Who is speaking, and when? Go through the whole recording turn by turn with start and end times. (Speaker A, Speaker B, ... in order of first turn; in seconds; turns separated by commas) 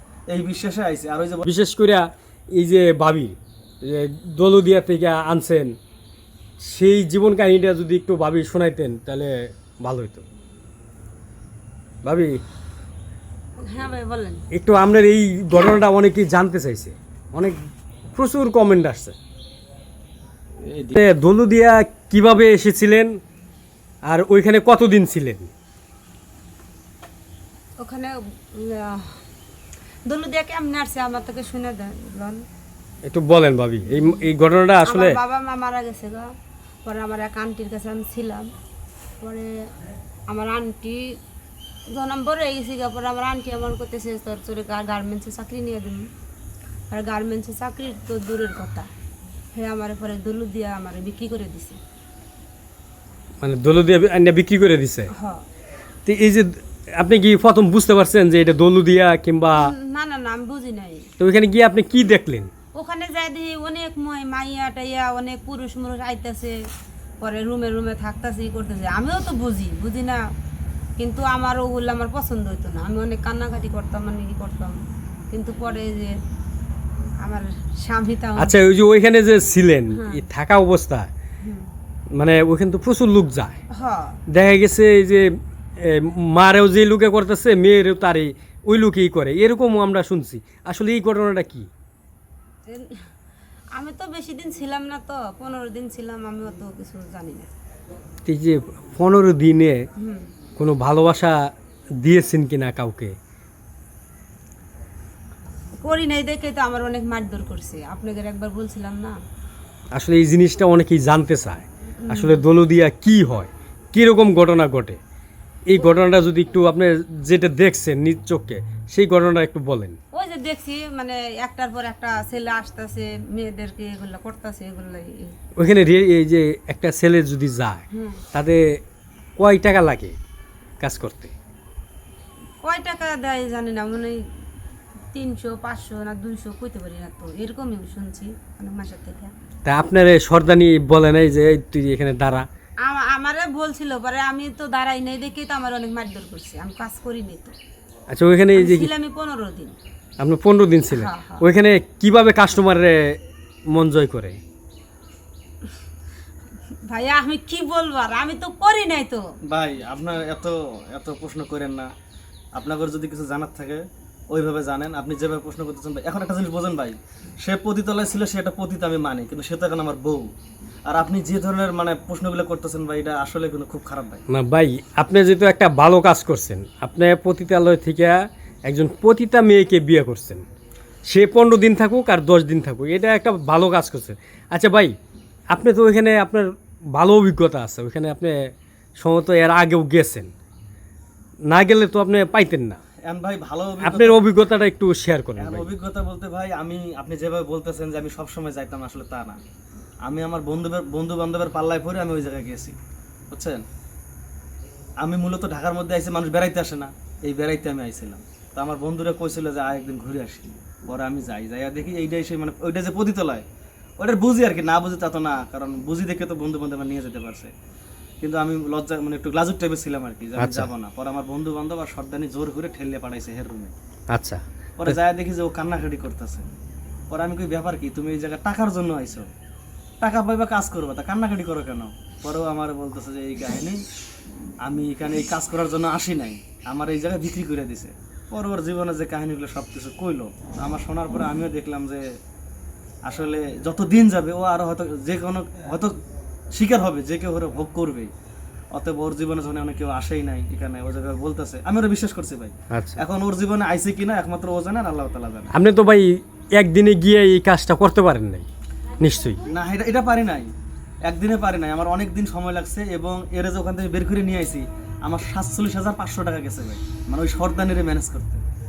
Speaker A: 0.3-1.5, Speaker B: 1.4-5.7, Speaker B: 6.6-10.2, Speaker B: 12.0-12.4, Speaker C: 13.7-14.4, Speaker B: 14.5-17.6, Speaker B: 18.1-19.2, Speaker A: 20.6-20.9, Speaker B: 20.9-23.2, Speaker B: 24.1-25.5, Speaker C: 27.8-29.2, Speaker C: 30.1-32.5, Speaker B: 33.0-35.2, Speaker C: 33.9-34.3, Speaker C: 34.9-36.3, Speaker C: 36.9-38.5, Speaker C: 39.2-39.6, Speaker C: 40.3-41.2, Speaker C: 41.9-46.1, Speaker C: 46.9-48.9, Speaker C: 49.5-51.8, Speaker B: 53.4-55.1, Speaker C: 55.1-55.4, Speaker B: 56.1-59.7, Speaker C: 59.6-61.1, Speaker B: 61.2-62.5, Speaker C: 62.8-66.5, Speaker C: 67.2-70.2, Speaker C: 71.0-74.8, Speaker C: 75.3-76.1, Speaker C: 77.2-78.6, Speaker B: 78.4-81.1, Speaker C: 79.9-80.2, Speaker C: 81.4-81.7, Speaker B: 82.2-83.6, Speaker C: 83.8-84.2, Speaker B: 84.3-85.2, Speaker B: 85.8-91.7, Speaker C: 92.7-93.0, Speaker C: 93.8-97.5, Speaker B: 98.2-99.8, Speaker C: 100.0-100.3, Speaker B: 100.6-101.4, Speaker B: 102.0-103.1, Speaker C: 105.8-109.2, Speaker B: 109.9-115.0, Speaker C: 112.0-112.5, Speaker B: 115.7-120.0, Speaker C: 120.1-125.3, Speaker B: 125.6-128.6, Speaker C: 127.9-128.2, Speaker B: 129.4-130.2, Speaker B: 130.8-131.3, Speaker C: 132.6-134.2, Speaker C: 135.1-139.3, Speaker B: 139.7-142.5, Speaker C: 142.8-147.6, Speaker B: 148.1-148.9, Speaker C: 148.6-149.8, Speaker B: 150.2-153.2, Speaker C: 150.9-151.5, Speaker B: 153.7-154.4, Speaker C: 156.9-159.2, Speaker A: 159.5-161.9, Speaker A: 162.6-170.3, Speaker A: 170.9-174.2, Speaker B: 174.3-180.4, Speaker B: 181.1-184.9, Speaker B: 185.5-190.3, Speaker B: 191.5-192.8, Speaker A: 193.1-194.2, Speaker B: 193.8-195.7, Speaker A: 195.4-199.4, Speaker A: 200.1-202.8, Speaker A: 203.3-203.6, Speaker A: 205.0-213.4, Speaker A: 214.0-217.5, Speaker A: 218.2-223.7, Speaker B: 220.4-220.7, Speaker B: 224.1-225.0, Speaker A: 224.8-226.5, Speaker A: 227.1-229.3, Speaker A: 230.0-233.8, Speaker A: 234.6-242.1, Speaker A: 243.1-245.9, Speaker A: 246.5-248.1, Speaker A: 248.7-255.5, Speaker B: 252.7-253.0, Speaker B: 255.5-258.5, Speaker B: 259.0-259.4, Speaker A: 259.5-260.5, Speaker A: 261.1-268.4